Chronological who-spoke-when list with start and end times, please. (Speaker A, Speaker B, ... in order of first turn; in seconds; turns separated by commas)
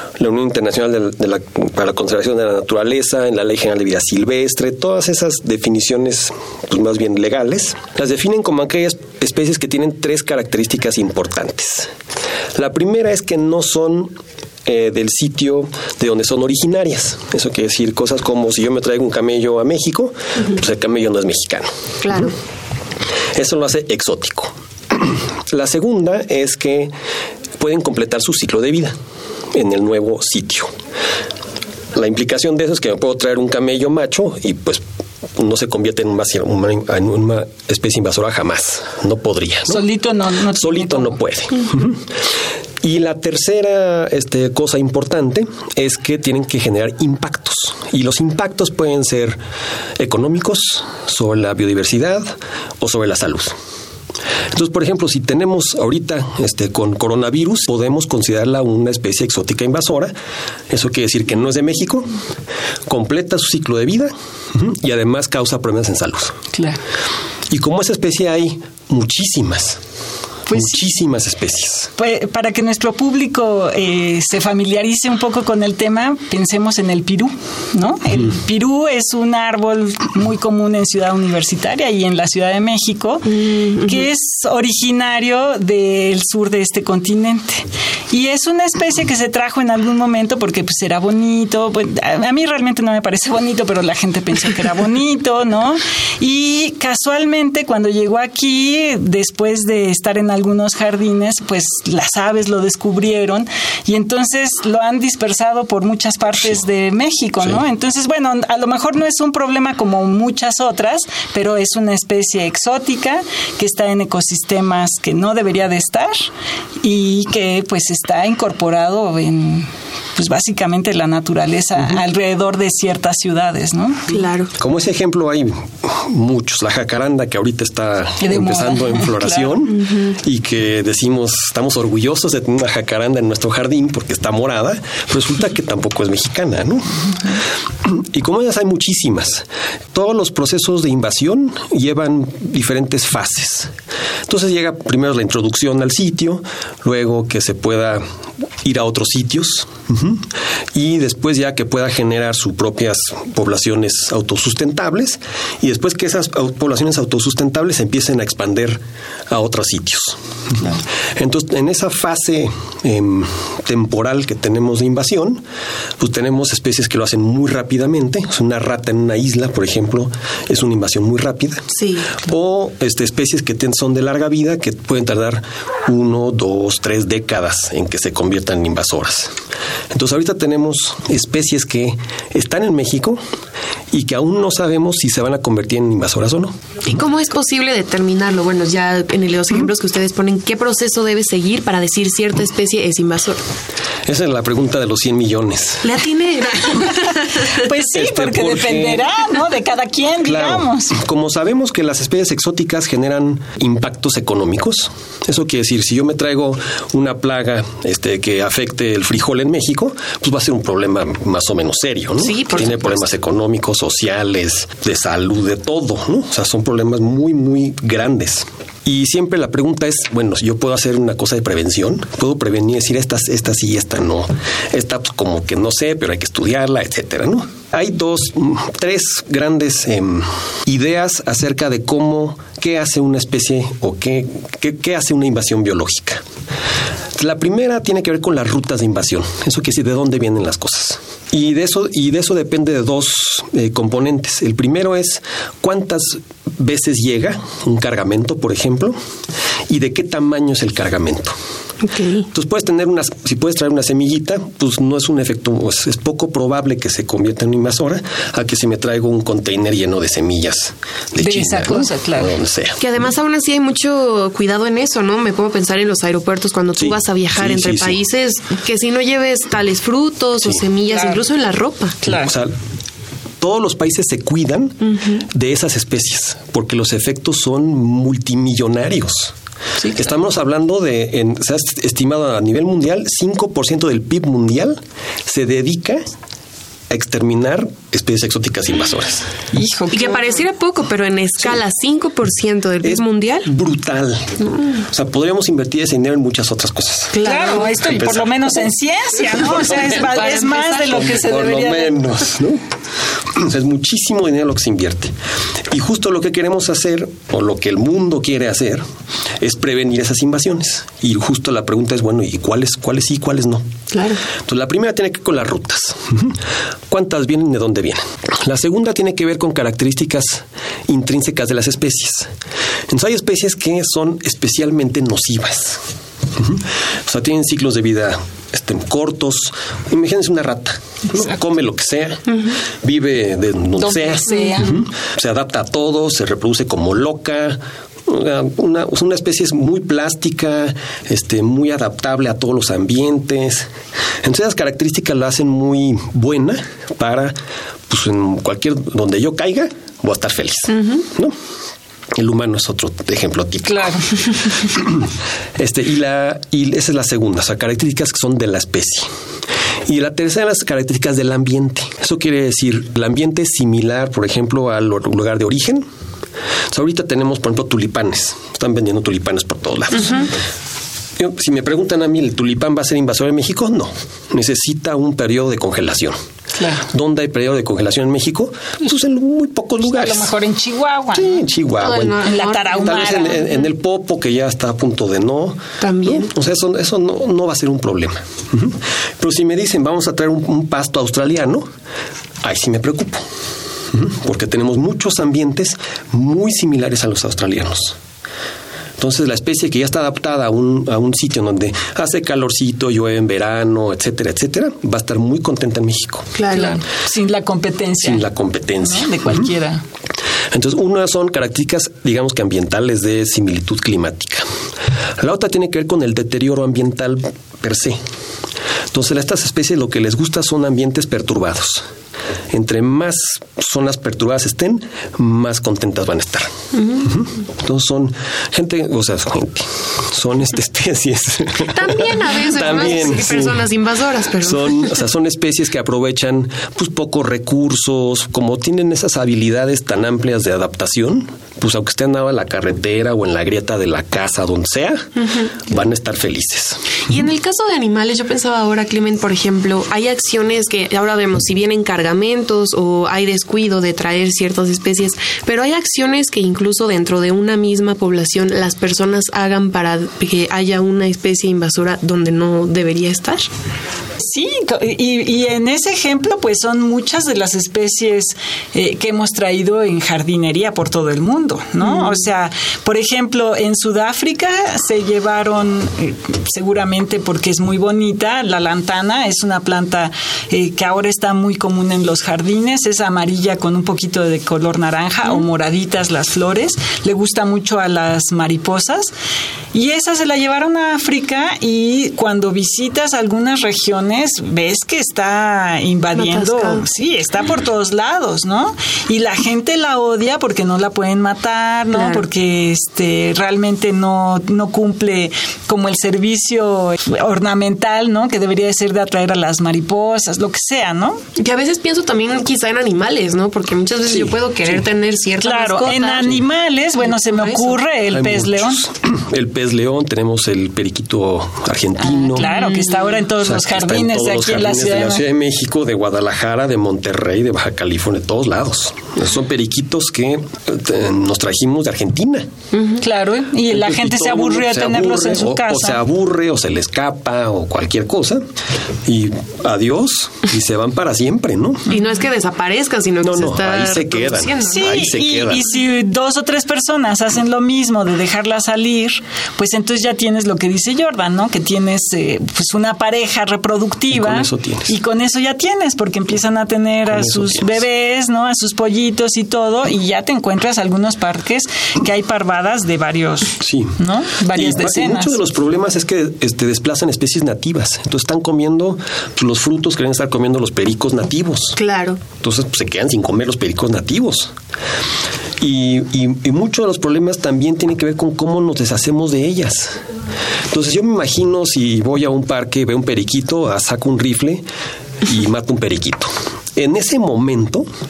Speaker A: 0.2-11.9, Speaker A: 12.5-14.1, Speaker A: 14.6-22.3, Speaker B: 22.0-22.3, Speaker A: 23.3-26.9, Speaker A: 27.6-28.9, Speaker A: 29.5-30.7, Speaker A: 31.9-34.8, Speaker A: 35.4-39.8, Speaker C: 39.7-41.2, Speaker A: 40.5-42.0, Speaker A: 42.8-49.4, Speaker A: 50.0-53.5, Speaker A: 54.5-60.1, Speaker A: 60.7-62.1, Speaker A: 62.9-66.4, Speaker C: 66.5-66.8, Speaker A: 67.5-69.8, Speaker C: 70.5-70.8, Speaker A: 70.5-71.9, Speaker C: 72.0-116.2, Speaker B: 83.3-84.0, Speaker C: 116.8-124.2, Speaker B: 124.1-124.5, Speaker A: 124.6-136.8, Speaker C: 128.2-129.6, Speaker B: 129.7-130.1, Speaker A: 137.8-143.7, Speaker A: 144.3-148.0, Speaker A: 148.6-160.2, Speaker A: 161.1-165.4, Speaker A: 166.0-179.3, Speaker B: 171.7-172.2, Speaker A: 179.9-183.2, Speaker A: 183.9-186.6, Speaker B: 186.8-193.4, Speaker A: 194.1-196.0, Speaker B: 195.8-197.5, Speaker C: 197.5-201.0, Speaker A: 197.8-199.1, Speaker A: 200.2-236.2, Speaker B: 212.2-213.0, Speaker A: 237.1-249.0, Speaker A: 249.7-251.3, Speaker B: 251.8-252.3, Speaker A: 252.3-263.0, Speaker C: 261.2-262.3, Speaker B: 262.8-272.0, Speaker A: 266.8-268.0, Speaker C: 270.9-271.2, Speaker C: 272.0-272.3, Speaker A: 272.0-272.6, Speaker A: 273.4-274.8, Speaker B: 274.8-275.2, Speaker A: 275.3-279.3, Speaker A: 279.9-286.0, Speaker A: 286.9-289.3, Speaker C: 289.5-290.4, Speaker B: 289.9-293.5, Speaker A: 292.8-298.7, Speaker B: 297.1-297.7, Speaker C: 297.2-302.0, Speaker A: 299.3-302.6, Speaker B: 300.1-301.0, Speaker A: 303.3-305.1, Speaker A: 305.7-308.8, Speaker A: 309.4-313.7, Speaker B: 313.9-314.2, Speaker A: 314.4-316.4, Speaker A: 316.9-322.3, Speaker A: 322.9-325.8, Speaker A: 326.3-343.7, Speaker C: 333.8-334.8, Speaker B: 334.3-334.7, Speaker A: 344.2-347.4, Speaker A: 347.9-351.4, Speaker B: 350.7-351.0, Speaker A: 352.1-354.0, Speaker C: 353.7-354.5, Speaker A: 354.6-359.1, Speaker A: 359.9-365.9, Speaker A: 366.7-370.3, Speaker A: 371.2-376.2, Speaker C: 376.6-376.9, Speaker A: 376.9-380.3, Speaker C: 379.9-381.4, Speaker A: 381.1-391.7, Speaker B: 381.8-383.1, Speaker C: 382.2-383.4, Speaker B: 385.8-386.3, Speaker A: 392.4-393.2, Speaker A: 393.9-398.0, Speaker A: 399.0-406.3, Speaker B: 406.4-406.8, Speaker C: 406.5-408.2, Speaker A: 408.0-409.5, Speaker C: 408.8-409.8, Speaker A: 410.5-414.5, Speaker A: 415.2-418.0, Speaker A: 418.9-421.8, Speaker A: 422.5-426.5, Speaker B: 426.7-427.1, Speaker A: 427.0-433.7, Speaker B: 431.6-434.9, Speaker A: 434.4-445.1, Speaker B: 445.2-445.6, Speaker A: 445.7-446.8, Speaker B: 447.1-463.5, Speaker C: 464.2-489.1, Speaker B: 471.8-472.2, Speaker C: 489.7-511.2, Speaker B: 496.2-496.8, Speaker B: 501.9-502.2, Speaker B: 511.4-516.4, Speaker C: 515.4-518.8, Speaker B: 517.1-517.8, Speaker A: 518.1-522.5, Speaker B: 522.3-523.1, Speaker C: 522.3-525.2, Speaker A: 523.4-532.5, Speaker B: 532.7-533.0, Speaker C: 533.0-536.0, Speaker A: 533.7-538.4, Speaker A: 539.0-541.9, Speaker B: 541.9-544.9, Speaker A: 543.2-545.7, Speaker C: 544.6-565.4, Speaker A: 554.1-555.0, Speaker A: 557.0-557.8, Speaker A: 563.6-564.0, Speaker A: 564.5-571.8, Speaker B: 571.8-572.2, Speaker A: 572.4-574.5, Speaker A: 575.6-580.0, Speaker A: 580.7-584.6, Speaker A: 585.2-587.9